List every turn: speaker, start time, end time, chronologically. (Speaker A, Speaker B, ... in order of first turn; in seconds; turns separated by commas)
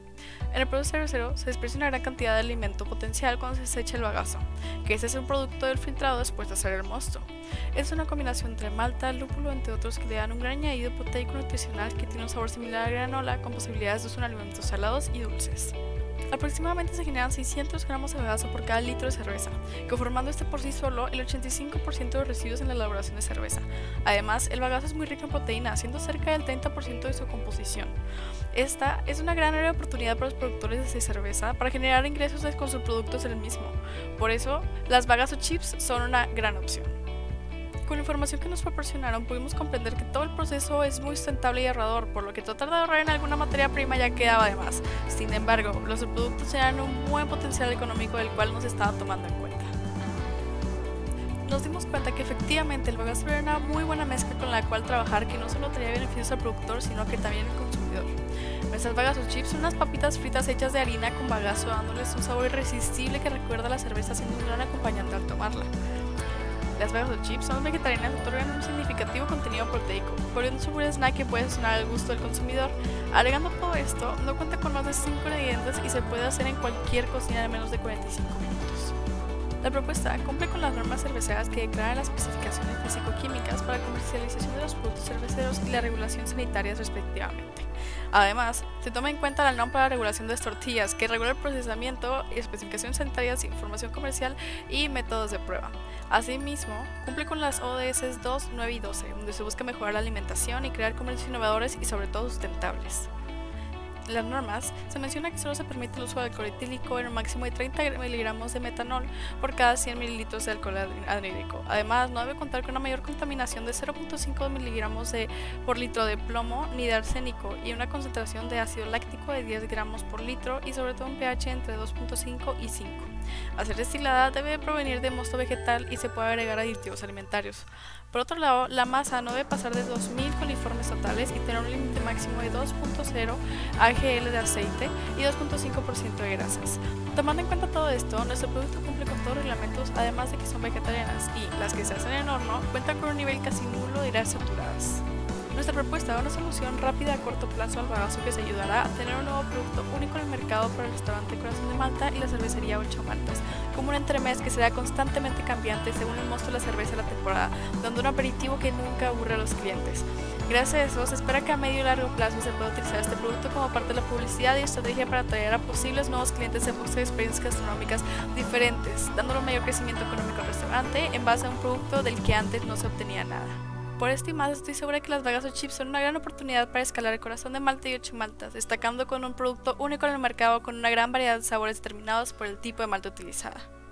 Speaker A: 0.5-15.8, Speaker A: 16.3-28.0, Speaker A: 28.5-37.0, Speaker A: 37.8-49.7, Speaker A: 51.4-58.2, Speaker A: 58.7-65.7, Speaker A: 66.8-78.9, Speaker A: 79.6-103.1, Speaker A: 104.1-183.7